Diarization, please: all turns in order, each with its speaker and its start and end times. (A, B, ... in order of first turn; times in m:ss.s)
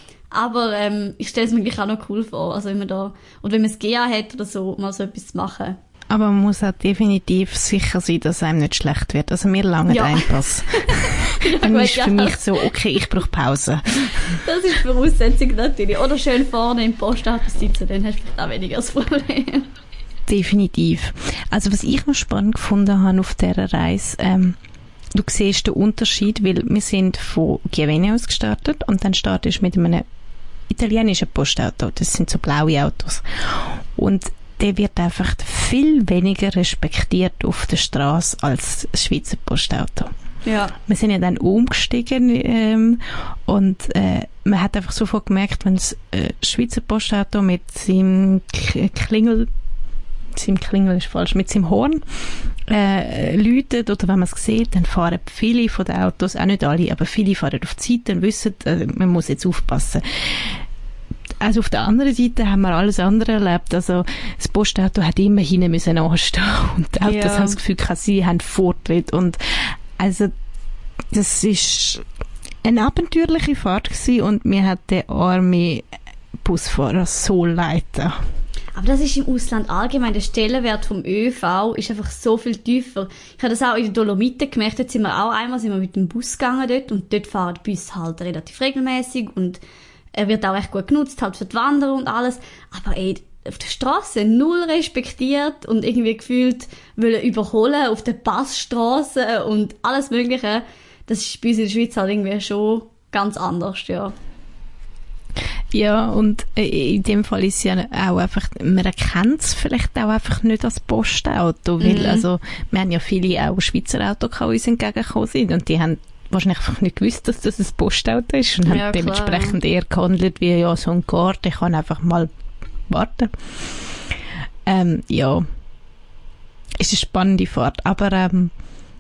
0:00.3-0:05.8 A
0:06.1-0:14.4 B
0:09.9-0:12.4 A
0:14.4-0:19.7 A
0:20.3-0:24.6 B
0:25.1-0:30.0 B
0:30.7-0:40.1 B
0:40.4-0:40.7 A
0:40.8-0:49.5 B
0:50.3-0:52.0 B
0:52.6-1:00.6 B
1:01.4-1:10.3 B
1:07.0-1:07.6 A
1:11.1-1:12.0 B
1:12.6-1:15.9 B
1:16.4-1:18.1 B
1:18.7-1:29.6 A
1:30.1-1:44.1 A
1:45.7-2:02.3 B
1:51.8-1:52.2 A
1:58.7-1:59.6 A
2:02.9-2:03.4 B
2:04.6-2:05.4 B
2:06.8-2:08.5 B